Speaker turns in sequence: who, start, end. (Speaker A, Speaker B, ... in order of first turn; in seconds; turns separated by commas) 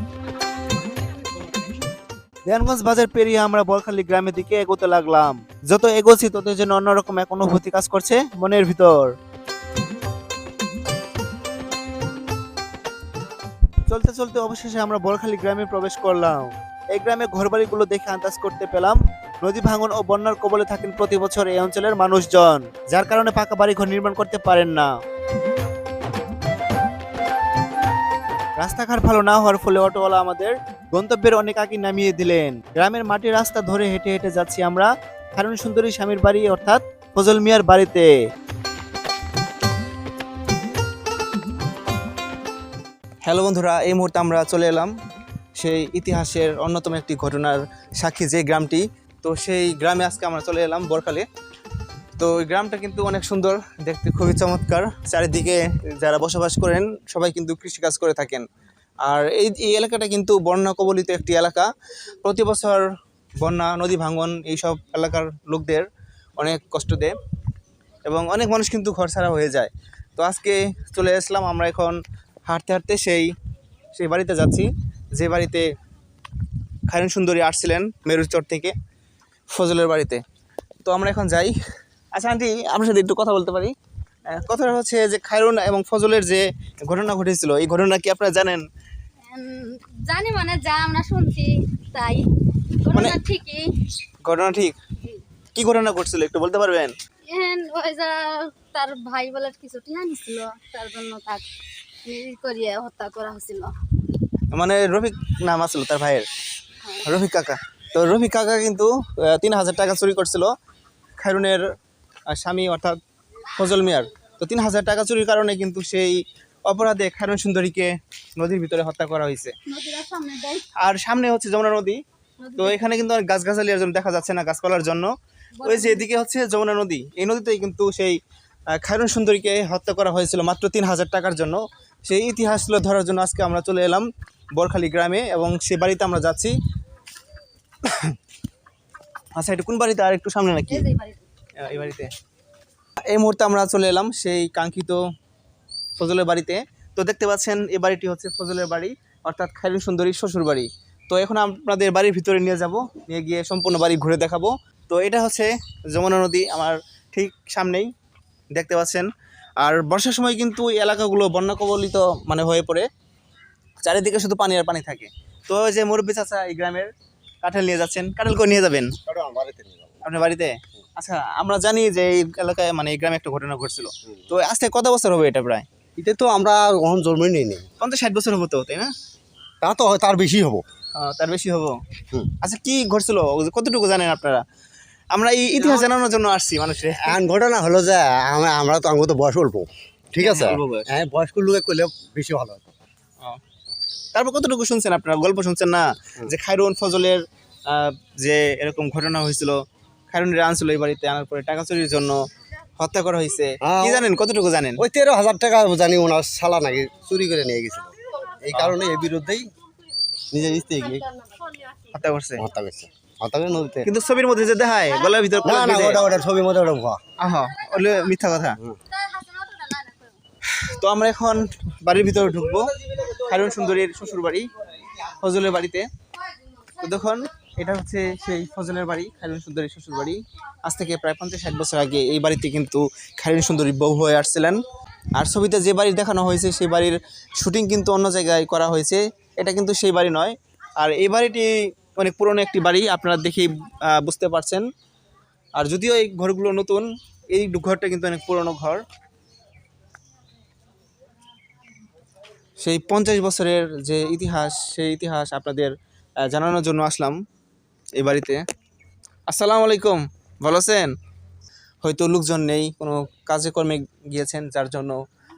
Speaker A: 2.5-9.1, Speaker A: 13.9-24.9, Speaker A: 28.6-38.1, Speaker A: 43.2-44.9, Speaker A: 45.6-51.2, Speaker A: 52.2-58.5, Speaker A: 59.0-61.7, Speaker A: 62.2-65.9, Speaker A: 66.4-67.2, Speaker A: 68.0-73.3, Speaker A: 73.9-75.7, Speaker A: 76.9-78.7, Speaker A: 79.5-80.2, Speaker A: 80.8-81.5, Speaker A: 82.1-83.7, Speaker A: 84.3-88.6, Speaker B: 89.3-92.2, Speaker B: 92.8-93.7, Speaker A: 92.9-93.2, Speaker A: 94.2-94.8, Speaker A: 95.5-96.9, Speaker B: 97.3-101.4, Speaker B: 102.0-103.7, Speaker A: 104.5-106.2, Speaker B: 106.8-107.1, Speaker A: 107.0-110.5, Speaker A: 111.2-111.6, Speaker A: 112.3-113.0, Speaker A: 113.5-119.5, Speaker B: 119.7-120.6, Speaker A: 120.8-122.0, Speaker B: 122.4-122.9, Speaker A: 122.6-125.1, Speaker B: 125.6-126.1, Speaker A: 125.6-128.2, Speaker A: 128.7-136.5, Speaker A: 139.3-140.9, Speaker B: 140.7-141.7, Speaker A: 141.6-142.1, Speaker A: 143.1-145.0, Speaker A: 146.0-157.9, Speaker A: 158.5-162.9, Speaker A: 163.8-166.9, Speaker A: 167.4-168.9, Speaker C: 169.1-170.0, Speaker A: 170.0-175.7, Speaker C: 176.0-177.7, Speaker A: 177.8-178.9, Speaker C: 179.6-180.6, Speaker A: 180.9-181.8, Speaker A: 182.4-184.4, Speaker A: 185.1-187.2, Speaker C: 187.0-192.6, Speaker A: 190.2-190.9, Speaker A: 194.1-199.6, Speaker A: 200.1-202.2, Speaker A: 202.8-204.8, Speaker C: 203.6-204.1, Speaker C: 204.8-209.5, Speaker C: 210.3-211.1, Speaker A: 211.9-212.4, Speaker C: 212.4-213.9, Speaker A: 213.8-216.1, Speaker C: 215.4-217.0, Speaker A: 217.2-218.6, Speaker B: 219.0-220.1, Speaker A: 220.5-222.7, Speaker A: 223.2-224.5, Speaker A: 225.2-225.9, Speaker A: 226.8-234.6, Speaker A: 235.2-244.7, Speaker A: 245.6-248.8, Speaker A: 252.6-257.2, Speaker A: 258.0-258.4, Speaker A: 259.3-260.9, Speaker A: 261.8-265.0